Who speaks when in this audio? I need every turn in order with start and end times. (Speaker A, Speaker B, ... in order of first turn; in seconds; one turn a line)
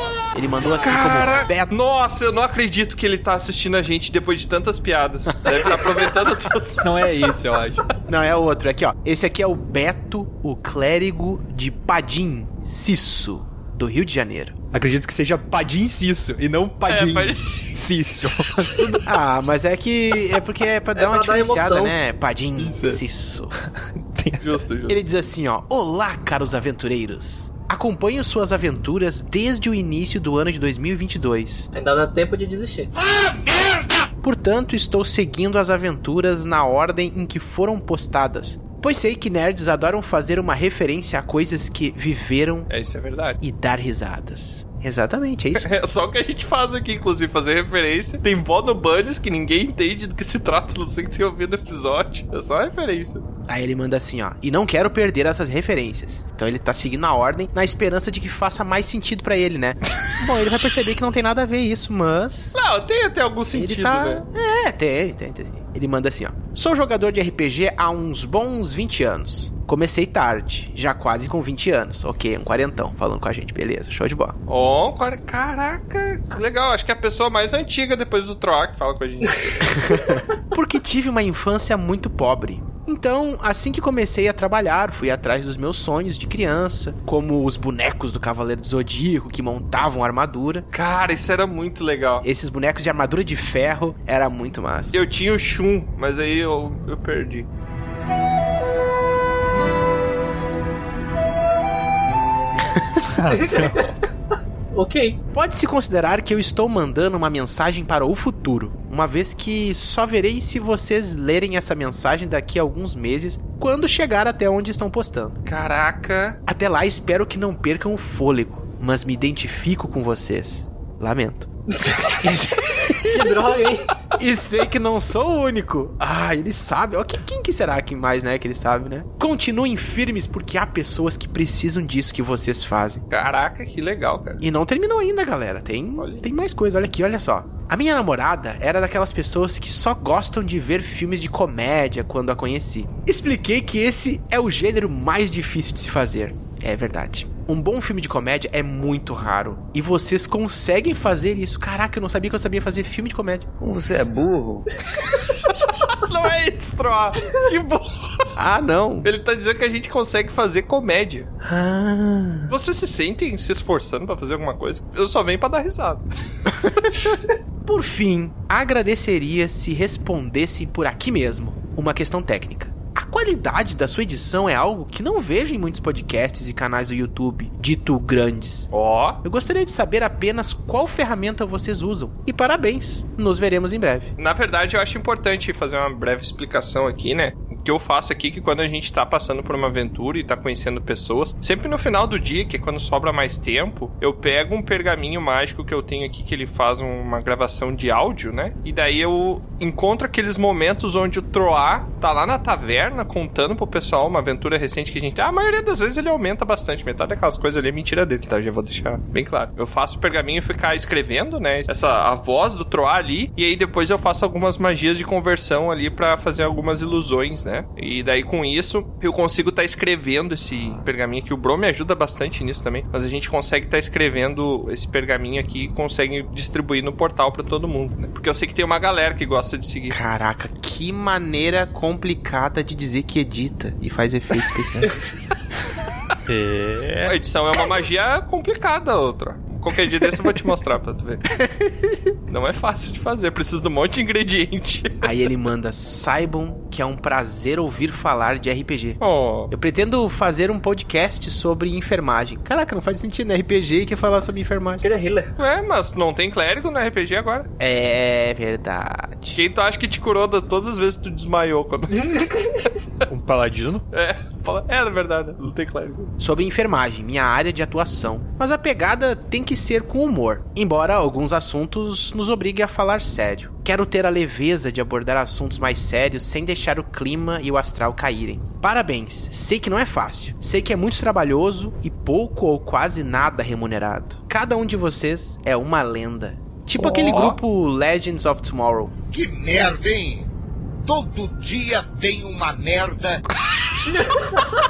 Speaker A: 0.3-1.7
Speaker B: 0.8-7.3
Speaker A: 5.5-5.9
Speaker C: 6.8-7.8
Speaker A: 8.1-14.6
Speaker C: 14.7-19.0
Speaker B: 16.9-17.7
Speaker A: 19.1-23.5
Speaker D: 20.9-21.9
Speaker C: 22.6-23.0
Speaker C: 23.6-24.5
Speaker B: 24.4-25.0
Speaker A: 24.9-31.7
Speaker D: 31.7-32.9
Speaker A: 34.2-42.7
Speaker B: 42.7-43.4
Speaker A: 43.4-45.7
Speaker B: 45.6-53.2
Speaker A: 53.5-62.6
Speaker B: 62.5-64.2
Speaker A: 63.5-74.4
Speaker B: 74.5-79.9
Speaker A: 79.7-90.7
Speaker B: 90.7-92.2
Speaker A: 92.2-95.0
Speaker B: 94.9-97.5
Speaker C: 103.0-103.9
Speaker D: 103.3-103.9
Speaker D: 104.7-105.2
Speaker A: 105.3-115.4
Speaker B: 115.5-116.4
Speaker A: 116.5-121.5
Speaker D: 121.8-122.2
Speaker A: 122.2-123.4
Speaker D: 123.1-123.9
Speaker A: 124.2-133.0
Speaker B: 133.1-134.4
Speaker A: 134.4-153.5
Speaker B: 136.0-136.2
Speaker E: 153.6-154.7
Speaker B: 155.5-158.3
Speaker A: 158.3-159.1
Speaker B: 159.0-161.3
Speaker A: 161.4-162.5
Speaker B: 162.5-166.0
Speaker A: 166.5-167.1
Speaker A: 167.6-178.7
Speaker B: 178.7-179.2
Speaker A: 179.2-184.1
Speaker B: 184.2-230.0
Speaker A: 229.9-234.9
Speaker C: 236.3-237.1
Speaker B: 237.0-241.2
Speaker A: 241.4-242.0
Speaker B: 242.3-245.1
Speaker A: 245.0-249.0
Speaker B: 249.0-249.5
Speaker A: 249.5-254.8
Speaker D: 254.8-255.3
Speaker B: 255.4-257.5
Speaker A: 257.6-259.4
Speaker B: 259.3-262.2
Speaker D: 261.9-262.7
Speaker C: 263.1-263.8
Speaker B: 263.9-266.1
Speaker A: 266.2-288.9
Speaker B: 286.8-287.4
Speaker E: 289.1-290.3
Speaker E: 290.9-293.2
Speaker D: 293.9-294.2